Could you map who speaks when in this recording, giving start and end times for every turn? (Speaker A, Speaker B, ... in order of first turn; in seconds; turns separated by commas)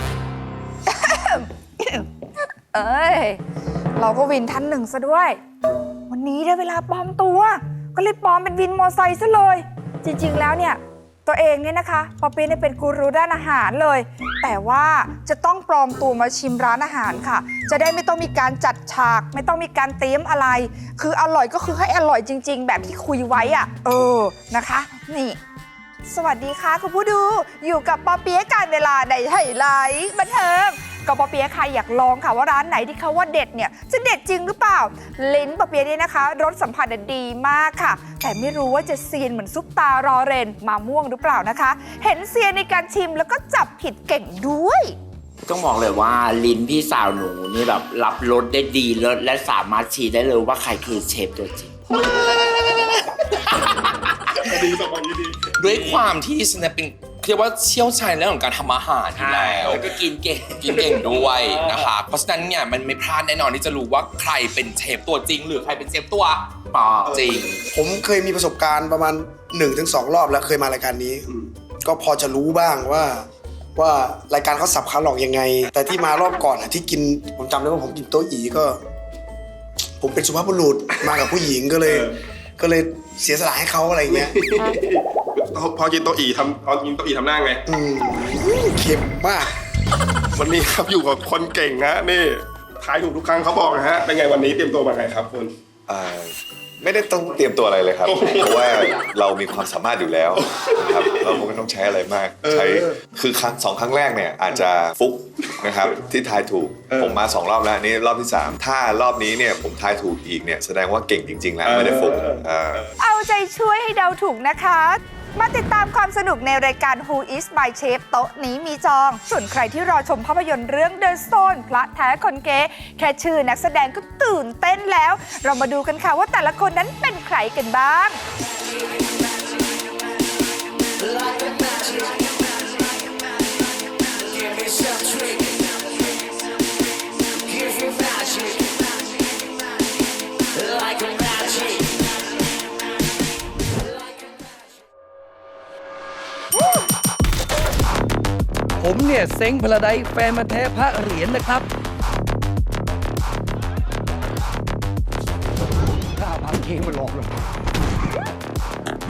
Speaker A: 0.9-3.4, Speaker A: 4.0-5.4, Speaker A: 6.1-25.4, Speaker A: 26.1-45.0, Speaker B: 45.5-51.8, Speaker C: 53.6-54.5, Speaker D: 54.4-56.0, Speaker C: 55.5-59.8, Speaker B: 59.1-60.8, Speaker C: 60.5-67.6, Speaker E: 67.7-71.3, Speaker E: 71.8-78.8, Speaker E: 80.0-84.4, Speaker D: 81.8-82.1, Speaker D: 84.1-87.6, Speaker E: 87.7-89.5, Speaker D: 90.3-95.5, Speaker F: 95.9-112.9, Speaker D: 98.1-98.9, Speaker D: 100.6-101.2, Speaker D: 111.7-112.4, Speaker A: 113.0-128.2, Speaker G: 148.8-151.7, Speaker G: 156.2-157.3